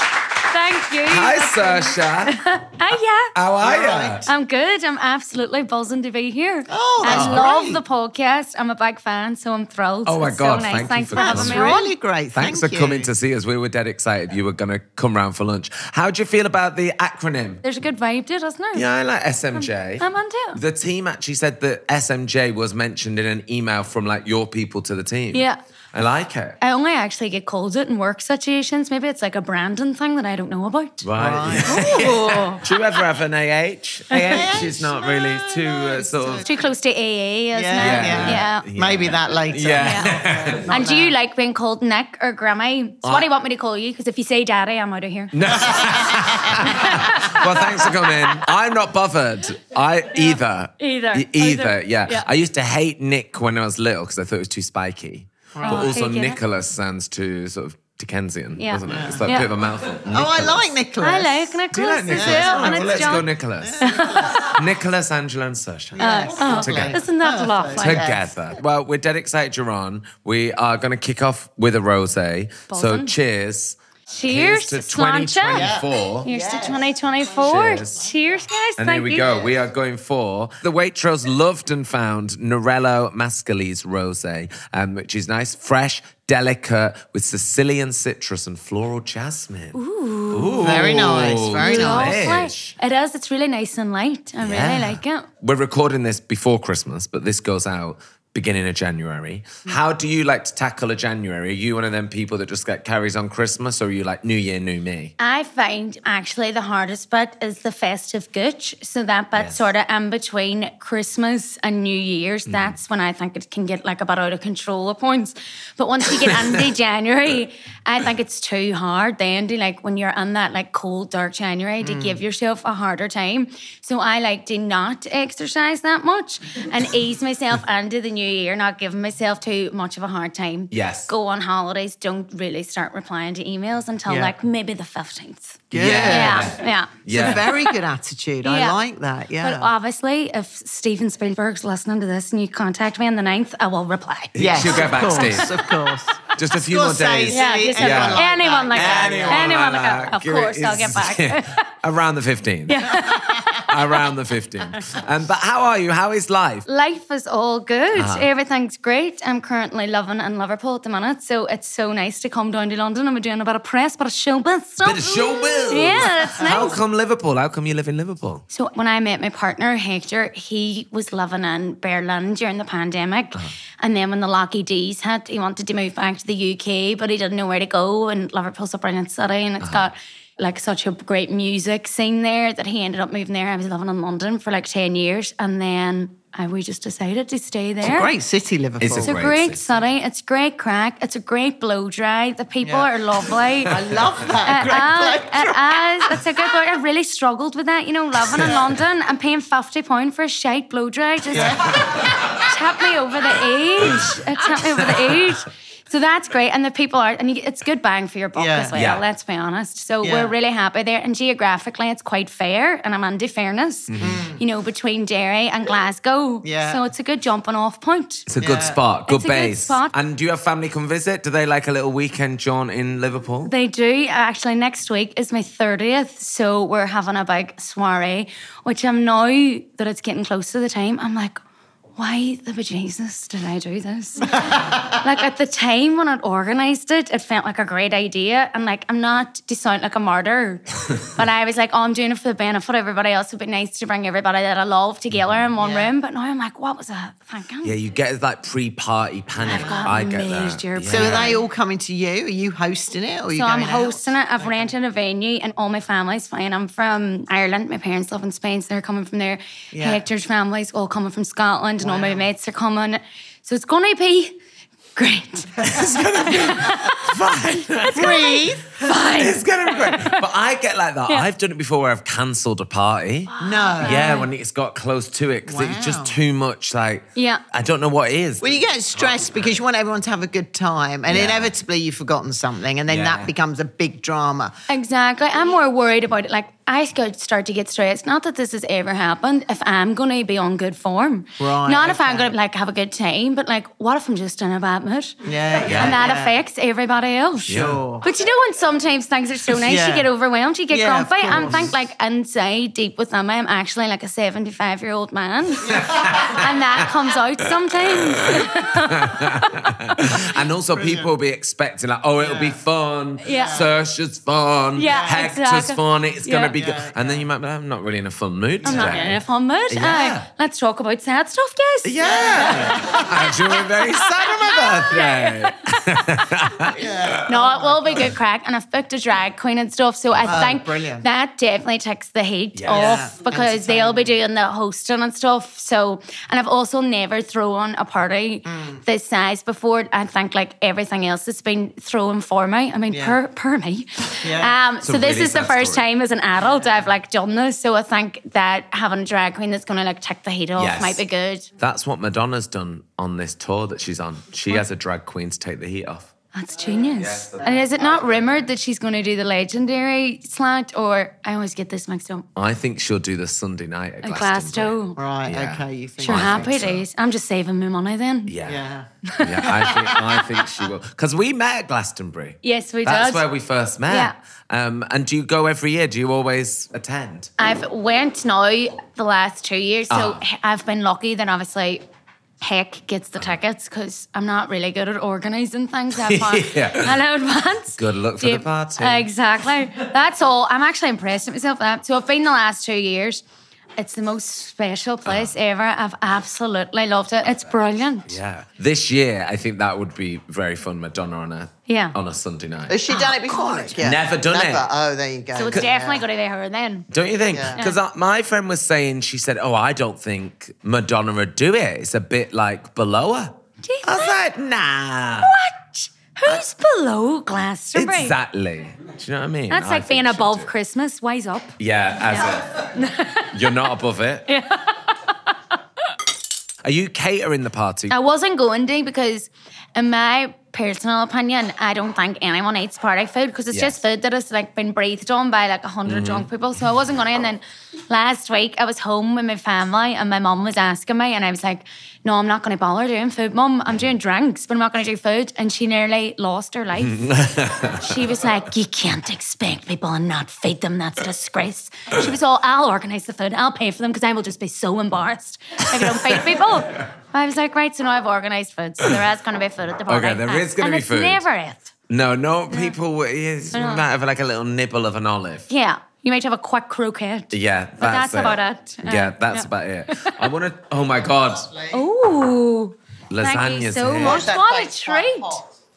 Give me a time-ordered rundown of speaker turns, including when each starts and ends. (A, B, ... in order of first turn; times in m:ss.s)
0:00.4-0:03.3 A
0:01.1-0:02.4 B
0:03.3-0:04.3 B
0:03.6-0:04.2 C
0:04.2-0:11.9 A
0:06.7-0:07.8 C
0:07.0-0:07.5 B
0:10.0-0:11.7 B
0:11.2-0:13.1 C
0:12.3-0:17.6 B
0:17.6-0:18.9 A
0:18.7-0:26.6 B
0:19.5-0:20.6 A
0:26.6-0:31.0 A
0:31.0-0:36.4 B
0:31.2-0:32.0 C
0:31.6-0:32.6 A
0:34.1-0:34.5 A
0:34.3-0:36.5 C
0:36.4-0:38.6 A
0:37.5-0:41.1 C
0:37.8-0:40.7 B
0:39.8-0:40.1 A
0:40.7-0:45.9 A
0:45.3-1:00.7 B
0:46.6-0:48.4 A
0:50.1-0:52.3 A
0:55.5-0:55.9 C
0:55.6-0:56.4 A
0:58.6-0:59.5 A
0:58.9-0:59.4 C
1:00.0-1:04.6 C
1:01.0-1:03.3 A
1:01.7-1:03.8 B
1:03.8-1:04.5 A
1:04.4-1:07.0 B
1:05.9-1:08.2 C
1:06.0-1:08.2 A
1:07.8-1:16.3 B
1:12.7-1:13.1 A
1:14.1-1:19.4 A
1:15.5-1:17.0 C
1:17.4-1:18.0 B
1:18.8-1:29.8 B
1:29.7-1:30.9 A
1:30.3-1:32.7 B
1:30.6-1:32.2 C
1:31.6-1:35.3 A
1:34.4-1:45.1 B
1:45.2-2:17.8 A
1:49.3-1:49.6 B
1:52.5-1:52.7 B
2:01.8-2:02.2 C
2:10.7-2:11.1 B
2:14.0-2:14.3 C
2:15.7-2:16.5 C
2:15.7-2:17.5 B
2:17.1-2:19.7 C
2:18.4-2:18.8 A
2:19.4-2:25.7 A
2:24.3-2:25.6 B
2:24.4-2:29.6 C
2:26.3-2:32.9 B
2:27.3-2:31.6 A
2:32.7-2:34.1 A
2:33.6-2:36.7 B
2:36.6-2:46.8 A
2:37.9-2:38.3 B
2:44.8-2:48.4 B
2:48.5-3:08.1 A
2:59.6-2:59.9 B
3:07.8-3:09.2 C
3:08.8-3:09.6 B
3:09.0-3:13.8 A
3:12.6-3:12.9 C
3:13.6-3:16.2 C
3:14.4-3:38.3 A
3:21.3-3:21.8 C
3:21.4-3:22.4 B
3:23.8-3:24.1 B
3:24.8-3:25.3 B
3:28.3-3:28.8 C
3:28.7-3:29.0 B
3:30.0-3:30.3 C
3:33.9-3:34.2 B
3:34.0-3:34.4 C
3:36.4-3:36.8 C
3:38.3-3:43.5 B
3:38.4-3:38.8 C
3:39.1-3:39.9 A
3:43.4-3:51.4 A
3:52.0-4:07.8 A
3:54.4-3:54.8 C
4:05.1-4:05.4 B
4:05.6-4:05.9 C
4:07.6-4:11.4 B
4:09.4-4:11.4 A
4:09.4-4:10.0 C
4:10.9-4:14.7 C
4:13.3-4:24.4 A
4:19.7-4:20.0 C
4:21.8-4:22.3 C
4:25.0-4:25.7 A
4:25.6-4:28.2 B
4:26.2-4:27.2 A
4:27.7-4:30.2 A
4:27.9-4:28.8 C
4:28.8-4:38.5 B
4:33.3-4:34.3 A
4:33.4-4:34.1 C
4:35.5-4:36.2 C
4:37.1-4:37.4 A
4:38.4-4:44.5 C
4:41.1-4:41.5 B
4:42.9-4:43.3 B
4:44.7-5:09.2 A
4:51.4-4:52.3 C
4:55.2-4:56.4 C
4:55.6-4:56.0 B
4:57.5-4:57.8 B
4:57.5-4:58.0 C
4:59.5-5:00.1 C
5:00.7-5:01.7 C
5:05.8-5:06.4 B
5:08.1-5:20.3 B
5:10.7-5:11.1 C
5:12.2-5:12.6 C
5:13.2-5:13.6 A
5:13.3-5:13.7 C
5:14.8-5:16.5 A
5:14.8-5:15.2 C
5:16.5-5:17.2 C
5:18.6-5:19.1 C
5:18.6-5:23.0 A
5:21.8-5:27.2 B
5:22.0-5:23.1 C
5:23.9-5:26.2 A
5:26.7-5:28.1 C
5:27.2-5:51.5 A
5:30.2-5:31.1 C
5:32.5-5:33.0 B
5:32.7-5:34.1 C
5:38.4-5:38.8 C
5:42.9-5:43.2 C
5:44.2-5:44.6 C
5:44.8-5:45.8 B
5:50.6-5:51.0 B
5:51.6-5:56.1 B
5:56.3-6:02.3 A
5:57.0-5:58.5 B
6:02.4-6:06.8 B
6:04.0-6:05.0 A
6:04.9-6:06.5 C
6:06.0-6:08.3 A
6:08.3-6:08.6 B
6:08.4-6:08.9 C
6:09.0-6:09.5 A
6:09.2-6:17.3 B
6:09.5-6:09.8 C
6:12.4-6:13.3 A
6:17.4-6:21.8 A
6:19.9-6:20.2 B
6:22.4-6:33.2 A
6:26.0-6:27.0 B
6:27.8-6:29.0 B
6:33.8-6:38.1 A
6:35.0-6:35.3 B
6:38.1-6:42.8 B
6:41.7-6:42.0 A
6:42.7-6:46.0 C
6:42.9-6:43.8 A
6:43.8-6:44.7 B
6:45.3-6:46.9 A
6:46.9-6:55.3 B
6:47.3-6:47.6 C
6:53.6-6:54.2 A
6:55.2-6:58.2 A
6:57.7-7:00.5 B
6:59.5-7:01.6 A
7:01.6-7:02.7 B
7:02.1-7:03.3 A
7:03.3-7:04.3 B
7:04.3-7:05.1 A
7:06.6-7:07.9 B
7:07.9-7:41.7 A
7:13.5-7:13.8 B
7:15.8-7:16.3 B
7:26.8-7:27.9 B
7:39.9-7:41.2 B
7:41.9-7:45.5 B
7:42.5-7:42.7 A
7:43.5-7:43.8 A
7:45.5-7:50.3 A
7:47.3-7:51.5 B
7:51.5-7:51.8 C
7:51.7-7:55.4 A
7:53.1-7:54.3 B
7:54.0-7:55.5 C